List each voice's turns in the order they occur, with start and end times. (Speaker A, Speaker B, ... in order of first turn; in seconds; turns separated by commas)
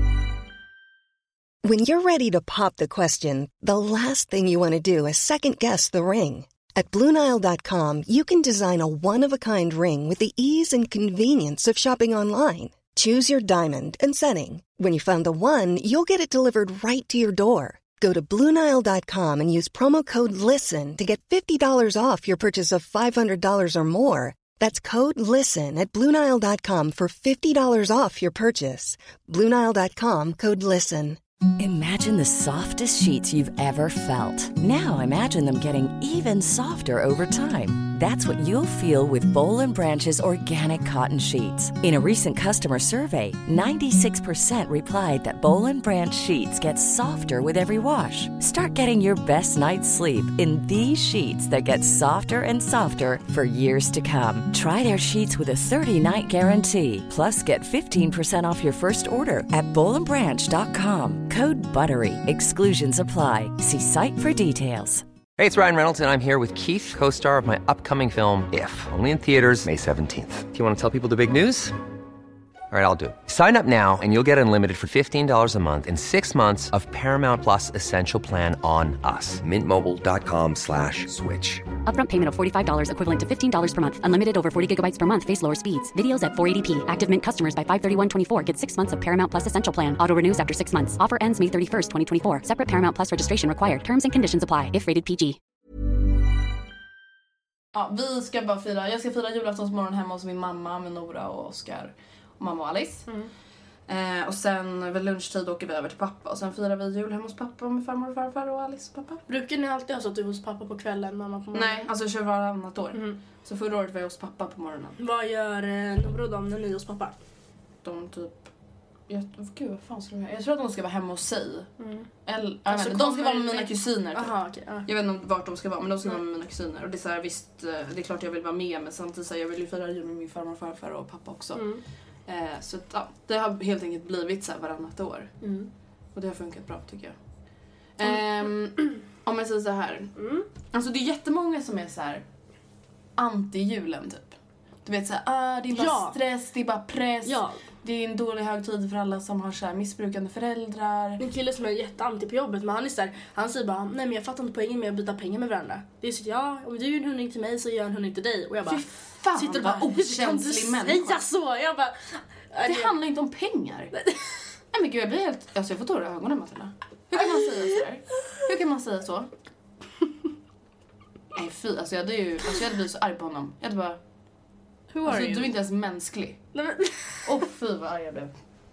Speaker A: 1.6-31.2, Speaker B: 31.6-65.0, Speaker C: 65.4-71.8, Speaker C: 72.7-81.7, Speaker D: 81.9-95.4, Speaker E: 97.7-103.1, Speaker E: 103.9-109.2, Speaker F: 109.3-111.9, Speaker E: 111.5-115.0, Speaker F: 112.9-113.2, Speaker F: 115.0-117.2, Speaker E: 117.8-118.5, Speaker E: 119.1-121.7, Speaker F: 121.8-122.1, Speaker E: 122.3-124.3, Speaker F: 122.7-124.9, Speaker E: 124.9-131.7, Speaker F: 131.6-131.8, Speaker E: 132.3-135.3, Speaker F: 135.4-135.7, Speaker E: 136.2-137.2, Speaker E: 138.0-140.1, Speaker F: 140.2-140.5, Speaker E: 140.7-142.2, Speaker E: 143.2-151.2, Speaker F: 145.7-146.2, Speaker F: 147.2-147.6, Speaker F: 151.2-162.9, Speaker E: 158.7-161.2, Speaker E: 162.6-163.9, Speaker E: 164.7-169.3, Speaker E: 171.3-174.0, Speaker F: 174.9-175.5, Speaker E: 175.1-176.4, Speaker F: 176.5-177.3, Speaker E: 177.2-178.3